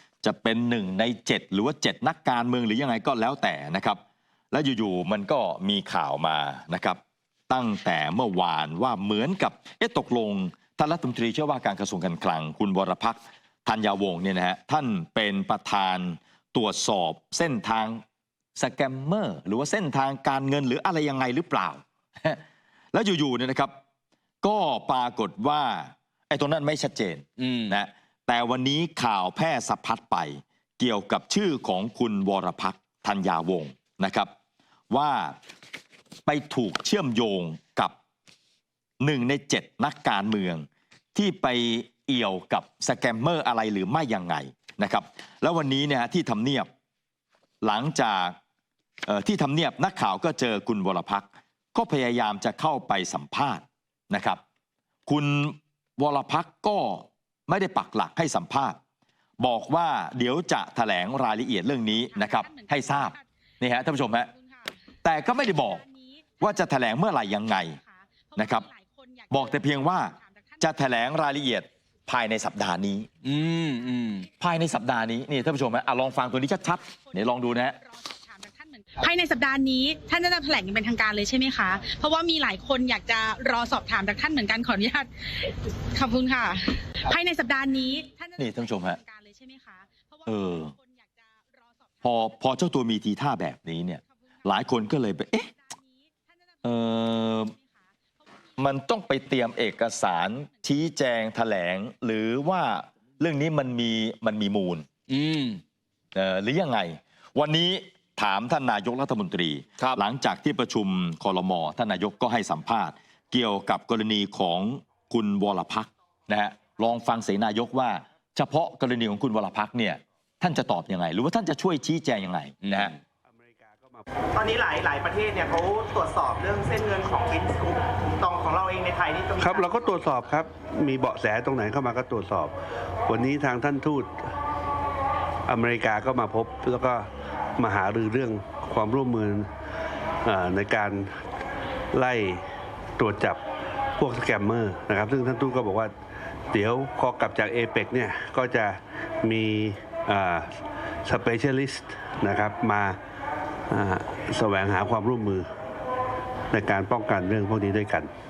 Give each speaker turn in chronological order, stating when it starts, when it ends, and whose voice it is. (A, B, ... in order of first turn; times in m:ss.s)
0:00.2-0:04.0 A
0:04.5-0:18.0 A
0:18.6-0:22.4 A
0:22.9-0:23.7 A
0:24.4-0:34.3 A
0:27.4-0:27.7 B
0:34.9-0:35.4 A
0:36.2-0:37.9 A
0:39.0-0:46.7 A
0:47.6-0:48.4 A
0:49.0-0:54.4 A
0:55.0-0:58.8 A
0:59.4-1:04.3 A
1:02.1-1:03.2 C
1:04.3-1:04.7 C
1:05.0-1:05.8 A
1:05.4-1:06.4 C
1:06.4-1:07.8 A
1:07.8-1:09.5 C
1:08.3-1:08.7 A
1:09.3-1:13.1 A
1:10.1-1:10.6 C
1:13.2-1:14.3 B
1:14.4-1:17.8 A
1:17.8-1:31.6 C
1:28.4-1:29.0 A
1:30.2-1:30.7 A
1:32.0-1:35.5 A
1:35.7-1:36.2 C
1:36.6-1:37.5 A
1:37.4-1:37.7 C
1:38.6-1:44.8 A
1:45.1-1:45.6 B
1:46.1-2:03.0 A
2:03.3-2:04.0 D
2:04.3-2:09.9 E
2:09.4-2:12.5 D
2:13.1-2:14.2 D
2:15.5-2:17.0 D
2:17.6-2:19.4 D
2:20.2-2:21.1 D
2:21.9-2:22.4 D
2:23.0-2:23.4 D
2:24.0-2:25.9 D
2:26.5-2:30.5 D
2:31.0-2:33.0 D
2:33.7-2:35.4 D
2:36.5-2:38.1 D